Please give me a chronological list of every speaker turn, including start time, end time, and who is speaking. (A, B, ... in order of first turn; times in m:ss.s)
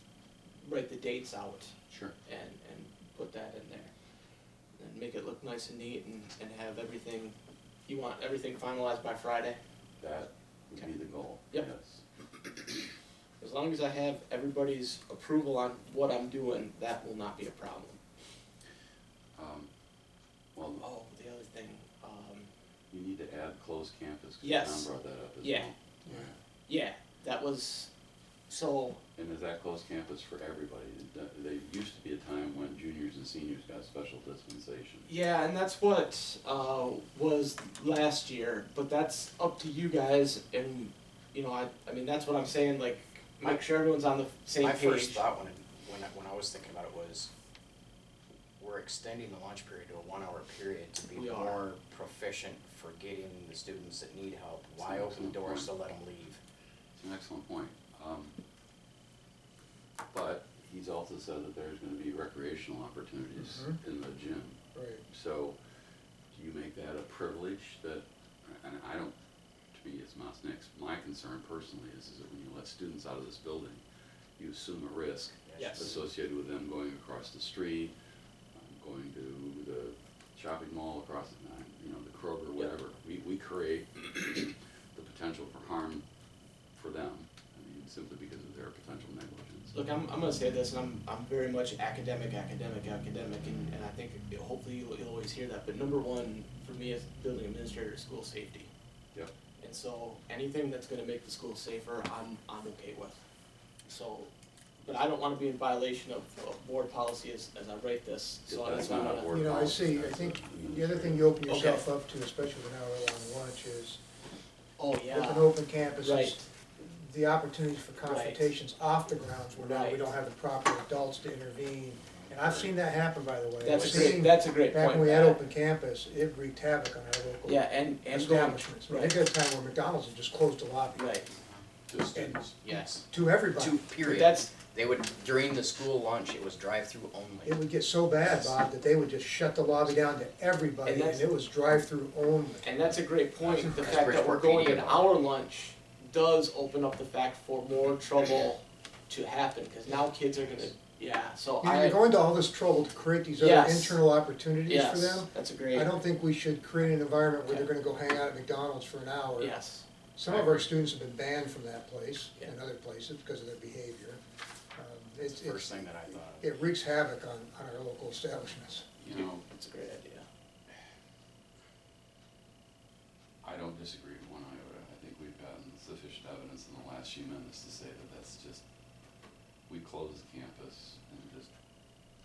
0:00.6-0:01.7 A
0:01.9-0:02.1 B
0:02.2-0:03.9 A
0:04.8-0:07.4 A
0:07.9-0:09.6 A
0:10.0-0:12.0 B
0:13.4-0:18.0 A
0:19.4-0:19.7 B
0:20.5-0:20.9 B
0:20.8-0:22.5 A
0:22.9-0:26.4 B
0:24.4-0:24.9 A
0:25.4-0:25.7 A
0:26.1-0:26.3 C
0:26.7-0:27.9 A
0:28.5-0:29.0 A
0:29.2-0:35.1 B
0:35.0-0:45.3 A
0:44.6-0:47.3 D
0:48.6-0:56.4 D
0:51.1-0:51.6 A
0:54.8-0:55.8 B
0:57.0-0:58.3 B
1:00.1-1:04.6 B
1:03.4-1:03.8 C
1:04.7-1:05.0 C
1:05.1-1:05.6 B
1:06.3-1:09.1 B
1:09.7-1:13.8 B
1:14.4-1:17.9 B
1:15.5-1:16.0 D
1:15.6-1:15.9 A
1:18.5-1:26.0 B
1:26.8-1:29.7 B
1:29.7-1:38.7 A
1:39.6-1:43.2 A
1:43.8-1:44.3 A
1:44.8-1:49.3 A
1:48.5-1:51.3 B
1:49.3-1:54.0 C
1:51.5-1:51.8 A
1:54.8-1:56.4 A
1:55.1-2:11.0 C
1:58.0-1:58.4 A
1:59.6-2:00.0 A
2:02.4-2:02.8 B
2:03.6-2:05.4 A
2:03.7-2:04.2 B
2:07.4-2:09.2 A
2:10.9-2:11.3 A
2:11.9-2:12.5 B
2:12.1-2:13.8 C
2:12.6-2:17.6 D
2:14.0-2:14.5 A
2:17.5-2:22.7 C
2:20.8-2:21.3 A
2:22.6-2:32.0 A
2:23.4-2:23.8 B
2:23.6-2:25.1 D
2:31.6-2:39.6 C
2:33.4-2:34.0 A
2:34.7-2:35.9 A
2:37.5-2:37.7 A
2:39.4-2:39.8 A
2:40.2-2:44.2 C
2:40.3-2:40.7 B
2:44.8-2:48.8 C
2:45.3-2:46.7 D
2:49.0-2:49.4 B
2:49.1-2:50.3 A
2:53.4-2:58.6 B
2:59.7-3:01.5 B